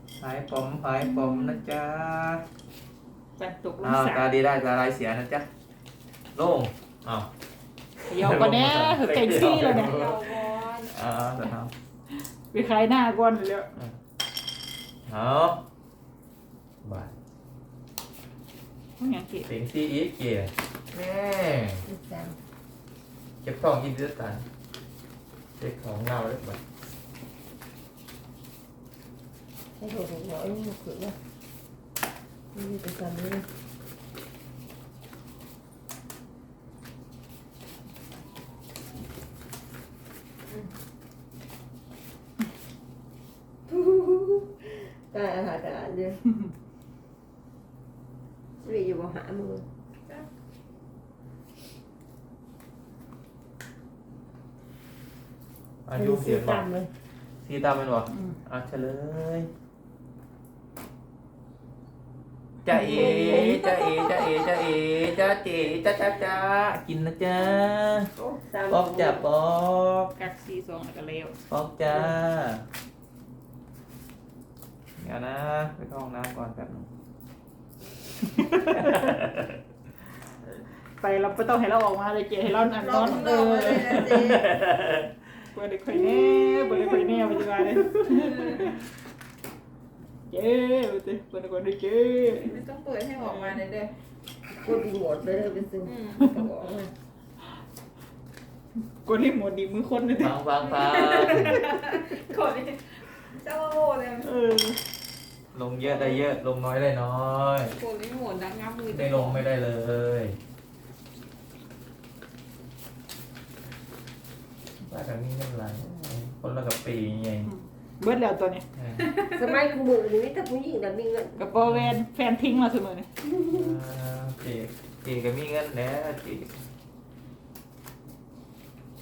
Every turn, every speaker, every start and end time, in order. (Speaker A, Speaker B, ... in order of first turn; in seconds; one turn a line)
Speaker A: 0.2-2.4
Speaker B: 3.4-4.3
Speaker A: 3.8-5.5
Speaker A: 6.3-7.3
Speaker A: 8.0-11.7
Speaker B: 8.1-10.0
Speaker C: 9.8-10.9
Speaker D: 10.0-10.8
Speaker B: 12.1-13.8
Speaker A: 15.1-15.6
Speaker A: 16.8-17.1
Speaker B: 19.0-19.5
Speaker A: 19.4-21.8
Speaker C: 21.8-22.4
Speaker A: 23.4-24.5
Speaker A: 25.6-26.6
Speaker C: 29.8-31.2
Speaker C: 32.5-33.5
Speaker C: 43.7-46.2
Speaker C: 48.6-49.6
Speaker A: 55.9-56.7
Speaker C: 56.0-56.9
Speaker A: 57.4-59.5
Speaker B: 58.1-58.4
Speaker A: 62.6-68.1
Speaker B: 62.7-63.5
Speaker C: 62.9-63.2
Speaker D: 63.4-63.8
Speaker C: 68.4-69.3
Speaker A: 68.7-70.2
Speaker B: 70.2-71.3
Speaker A: 71.5-72.6
Speaker A: 75.0-76.9
Speaker B: 78.4-79.1
Speaker A: 78.4-79.5
Speaker B: 81.0-84.3
Speaker D: 82.7-84.5
Speaker C: 83.0-84.0
Speaker A: 84.0-85.1
Speaker B: 85.5-88.8
Speaker D: 88.3-88.6
Speaker B: 90.3-92.6
Speaker D: 92.4-94.0
Speaker B: 93.2-93.5
Speaker C: 94.5-96.9
Speaker D: 95.8-96.5
Speaker B: 99.0-100.3
Speaker A: 100.2-101.6
Speaker D: 100.7-104.3
Speaker B: 101.0-102.0
Speaker B: 104.2-104.8
Speaker A: 105.5-107.8
Speaker D: 105.8-106.2
Speaker D: 107.7-109.5
Speaker A: 108.9-110.4
Speaker A: 114.8-117.5
Speaker B: 117.5-118.7
Speaker A: 118.8-119.1
Speaker D: 119.1-119.4
Speaker C: 119.3-121.4
Speaker B: 121.4-123.1
Speaker A: 121.6-122.0
Speaker C: 123.3-123.6
Speaker A: 123.5-126.6